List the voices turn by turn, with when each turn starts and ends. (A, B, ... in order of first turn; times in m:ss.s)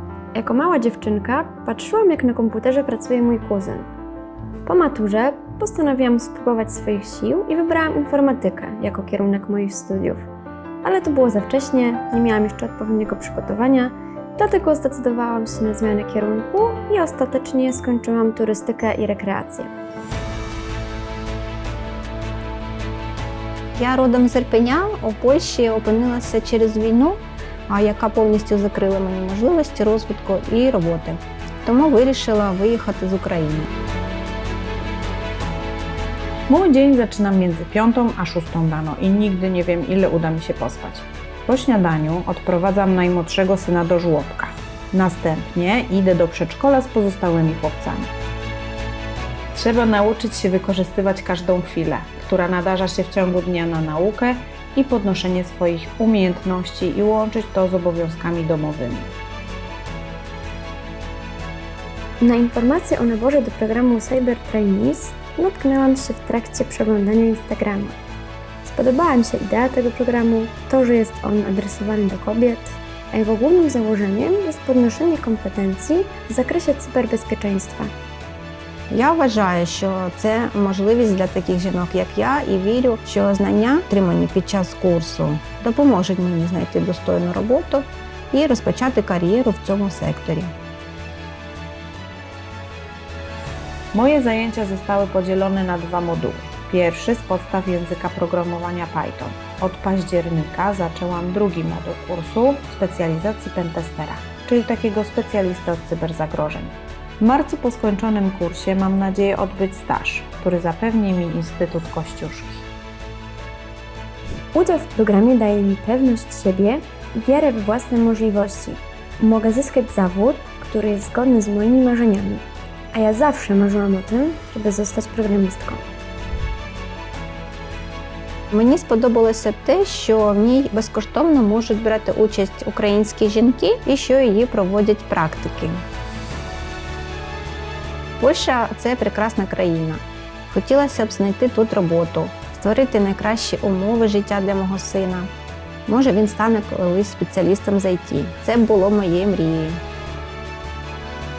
0:00.3-0:03.9 A
0:04.6-0:10.2 A
0:10.8-0:19.7 A
0:23.8-0:33.7 B
0:36.5-0:48.1 C
0:49.6-0:59.1 C
1:02.2-1:07.9 A
1:08.6-1:17.9 A
1:18.9-1:30.5 B
1:33.9-1:52.6 C
1:54.5-2:05.8 A
2:08.5-2:15.8 B
2:18.2-2:25.3 B
2:25.9-2:29.8 B